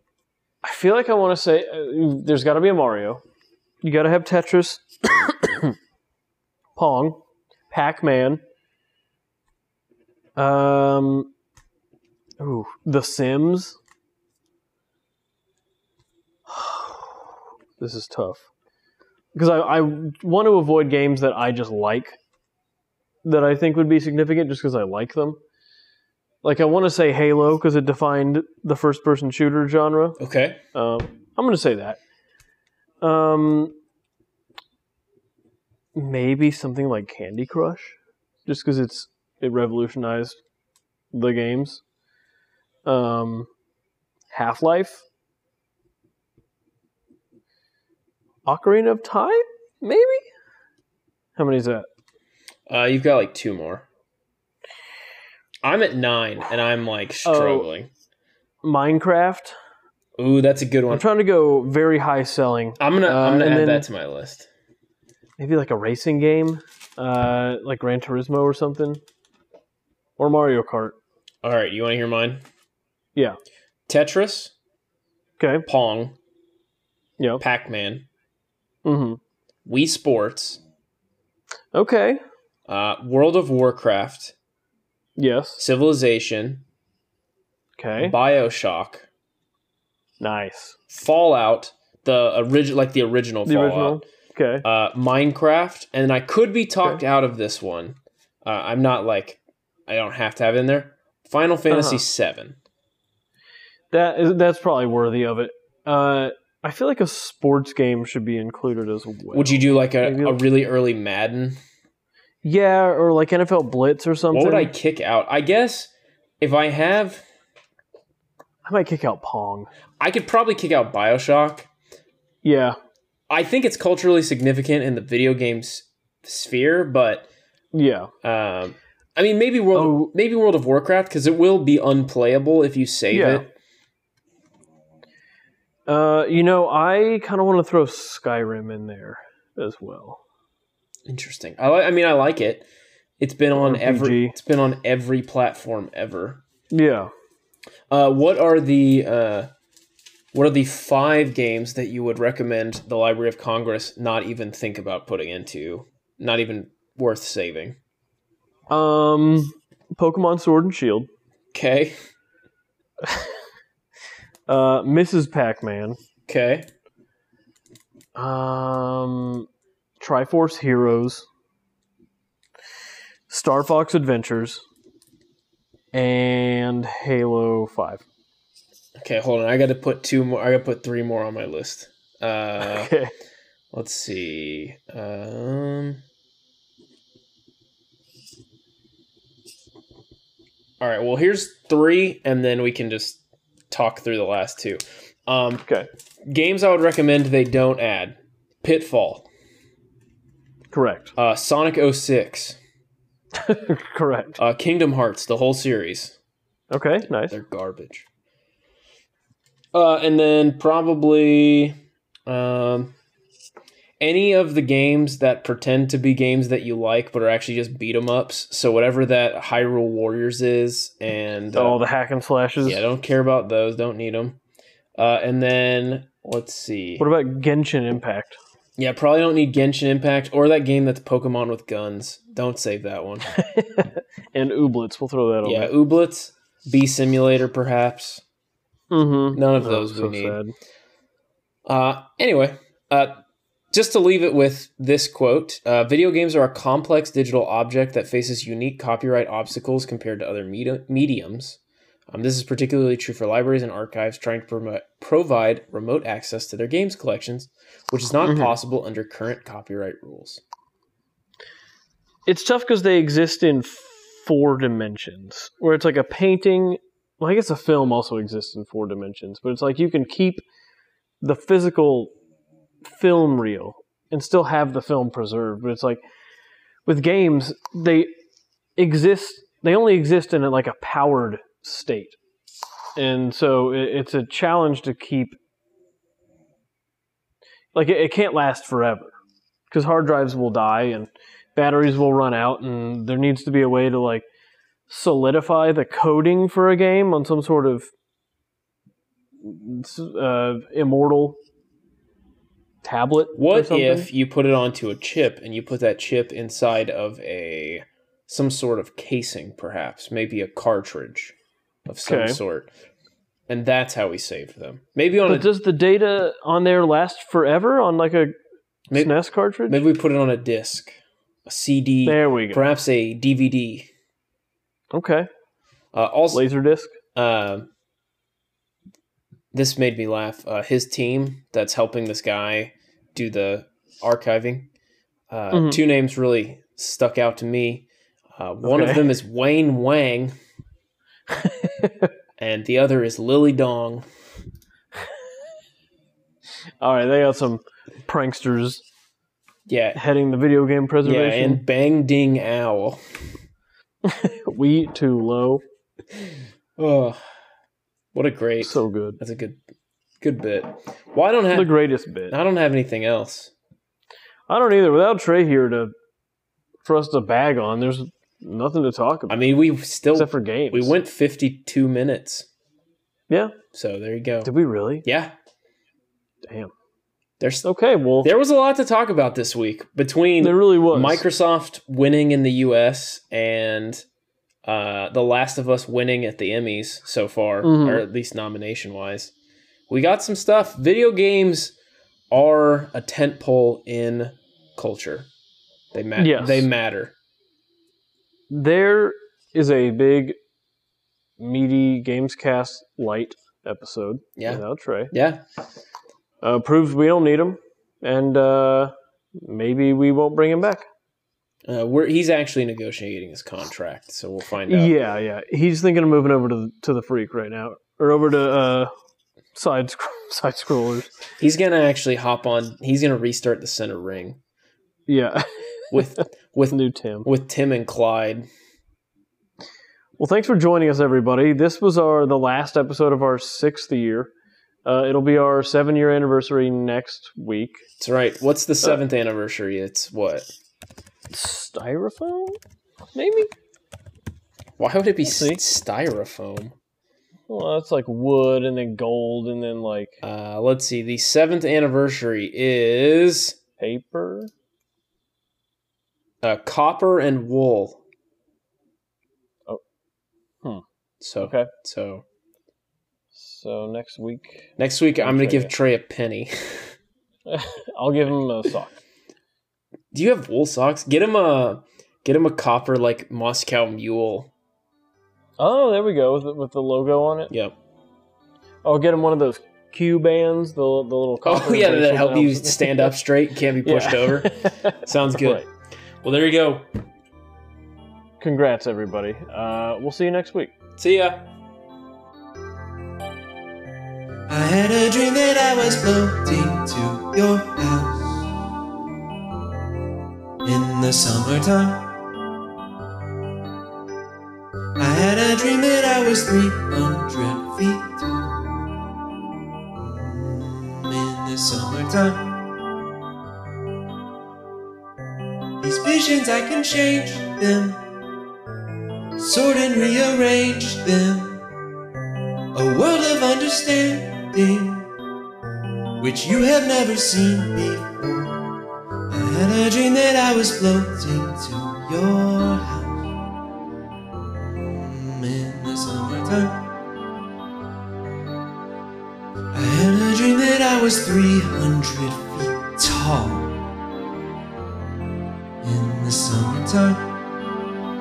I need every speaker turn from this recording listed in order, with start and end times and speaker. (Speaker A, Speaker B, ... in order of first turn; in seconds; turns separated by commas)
Speaker A: 0.6-3.2, Speaker A: 3.8-4.8, Speaker A: 6.8-8.4, Speaker A: 10.4-11.3, Speaker A: 12.4-13.8, Speaker A: 16.5-17.3, Speaker A: 17.8-18.4, Speaker A: 19.3-22.2, Speaker A: 23.2-25.4, Speaker A: 26.4-30.2, Speaker B: 30.2-30.6, Speaker A: 30.7-32.0, Speaker A: 33.0-33.7, Speaker A: 35.9-40.4, Speaker A: 41.1-41.8, Speaker A: 42.9-43.5, Speaker A: 44.3-45.0, Speaker A: 48.5-50.2, Speaker A: 51.4-51.9, Speaker B: 52.7-53.9, Speaker B: 55.6-57.9, Speaker A: 57.2-57.7, Speaker A: 58.6-59.5, Speaker B: 60.2-61.0, Speaker A: 60.9-63.9, Speaker B: 62.8-64.5, Speaker A: 65.4-69.0, Speaker A: 70.2-71.0, Speaker B: 71.4-72.4, Speaker B: 73.9-74.5, Speaker A: 75.4-75.7, Speaker B: 75.7-76.2, Speaker B: 77.4-78.0, Speaker A: 78.8-79.2, Speaker B: 79.7-80.6, Speaker A: 81.7-82.2, Speaker B: 82.7-84.3, Speaker A: 85.2-85.6, Speaker B: 85.6-86.6, Speaker A: 87.8-88.1, Speaker B: 88.0-89.1, Speaker A: 90.2-90.8, Speaker B: 90.9-94.0, Speaker A: 93.5-94.7, Speaker B: 94.6-102.6, Speaker A: 101.7-102.0, Speaker A: 103.9-110.4, Speaker B: 109.3-111.6, Speaker A: 112.4-114.7, Speaker B: 114.3-117.2, Speaker A: 118.6-119.7, Speaker B: 120.0-121.7, Speaker A: 122.4-122.8, Speaker B: 123.3-127.3, Speaker A: 127.7-128.1, Speaker B: 128.2-133.5, Speaker A: 129.7-130.1, Speaker A: 133.1-133.5, Speaker A: 135.9-140.2, Speaker B: 141.1-142.7, Speaker B: 143.2-146.4, Speaker A: 143.6-144.3, Speaker A: 146.7-147.1, Speaker B: 147.9-149.5, Speaker B: 150.3-157.8, Speaker A: 158.7-161.1, Speaker B: 161.5-162.0, Speaker A: 163.0-163.3, Speaker A: 164.5-166.0, Speaker B: 166.3-166.7, Speaker A: 168.1-169.5, Speaker A: 170.0-171.3, Speaker A: 173.3-174.6, Speaker A: 175.9-178.0, Speaker B: 179.0-182.9, Speaker A: 182.6-183.1, Speaker B: 183.7-186.0, Speaker B: 190.8-195.6, Speaker B: 196.3-199.3, Speaker A: 200.7-201.1, Speaker B: 201.2-202.6, Speaker A: 203.3-204.4, Speaker B: 204.4-206.1, Speaker A: 206.7-207.4, Speaker B: 207.2-208.1, Speaker B: 209.7-212.9, Speaker B: 214.0-221.8, Speaker A: 221.5-222.8, Speaker B: 222.6-224.4, Speaker B: 225.0-227.1, Speaker A: 227.0-228.4, Speaker B: 228.8-233.3, Speaker A: 233.3-235.7, Speaker B: 235.4-238.2, Speaker A: 238.9-240.5, Speaker B: 239.3-240.4, Speaker B: 241.7-251.6, Speaker B: 252.1-260.4, Speaker A: 258.2-258.5, Speaker A: 262.2-270.4, Speaker A: 271.2-272.1, Speaker A: 272.8-276.0, Speaker A: 276.9-278.1, Speaker A: 278.8-282.2, Speaker A: 282.9-285.4, Speaker A: 287.7-289.1, Speaker A: 289.7-294.2, Speaker A: 294.9-297.9, Speaker A: 299.4-301.4, Speaker A: 302.8-304.1, Speaker B: 303.3-311.3, Speaker B: 311.9-312.7, Speaker A: 312.1-312.4, Speaker B: 313.5-315.5, Speaker A: 315.2-318.3, Speaker A: 318.9-319.8, Speaker B: 319.7-320.9, Speaker B: 321.4-323.9, Speaker A: 322.0-322.6, Speaker A: 324.9-325.3, Speaker B: 325.9-326.4, Speaker A: 326.3-326.9, Speaker B: 327.1-327.7, Speaker B: 329.5-334.7, Speaker B: 335.3-340.3, Speaker A: 335.5-335.8, Speaker A: 338.6-339.1, Speaker A: 341.3-342.1, Speaker B: 342.4-344.1, Speaker A: 346.8-348.8, Speaker B: 349.7-350.0, Speaker A: 349.9-351.6, Speaker B: 351.0-353.0, Speaker A: 354.0-355.6, Speaker B: 356.8-357.2, Speaker B: 358.1-359.6, Speaker A: 358.6-359.2, Speaker B: 360.2-361.7, Speaker A: 361.5-362.4, Speaker B: 362.3-363.5, Speaker A: 364.5-365.9, Speaker A: 366.8-369.4, Speaker B: 369.3-372.5, Speaker A: 370.1-370.9, Speaker A: 373.3-373.5, Speaker B: 373.7-374.5, Speaker A: 374.4-375.1, Speaker B: 375.0-375.3, Speaker A: 376.4-376.7, Speaker B: 377.4-377.7, Speaker A: 377.6-378.3, Speaker B: 378.2-384.0, Speaker A: 380.4-381.2, Speaker B: 384.6-389.3, Speaker A: 387.6-388.0, Speaker B: 389.9-391.7, Speaker B: 392.3-395.3, Speaker B: 395.9-397.1, Speaker A: 396.2-396.7, Speaker A: 398.5-400.4, Speaker A: 401.4-405.1, Speaker B: 404.4-405.4, Speaker A: 406.4-410.9, Speaker B: 411.7-414.9, Speaker A: 414.7-418.9, Speaker A: 419.5-421.1, Speaker B: 421.4-424.4, Speaker A: 425.1-427.3, Speaker B: 425.9-428.5, Speaker A: 430.2-434.3, Speaker A: 434.8-437.8, Speaker B: 438.0-440.5, Speaker A: 441.3-442.6, Speaker A: 443.1-443.5, Speaker B: 444.8-446.7, Speaker A: 445.2-445.6, Speaker A: 447.5-450.2, Speaker B: 450.2-453.6, Speaker A: 453.8-454.5, Speaker B: 456.4-458.0, Speaker B: 461.2-462.2, Speaker A: 461.4-461.7, Speaker A: 463.3-465.7, Speaker B: 464.8-466.9, Speaker A: 467.5-469.0, Speaker B: 470.1-474.5, Speaker A: 475.6-477.5, Speaker B: 477.5-477.8, Speaker A: 478.8-483.2, Speaker B: 481.4-485.6, Speaker A: 483.8-485.6, Speaker B: 486.2-486.9, Speaker A: 488.4-490.7, Speaker B: 491.0-491.4, Speaker C: 494.5-498.4, Speaker C: 500.6-502.0, Speaker C: 505.0-508.7, Speaker C: 509.9-512.5, Speaker C: 515.8-518.0, Speaker C: 519.4-521.6, Speaker C: 522.7-525.0, Speaker C: 526.2-528.6, Speaker C: 529.3-533.3, Speaker C: 534.5-536.8, Speaker C: 539.7-543.8, Speaker C: 545.8-547.3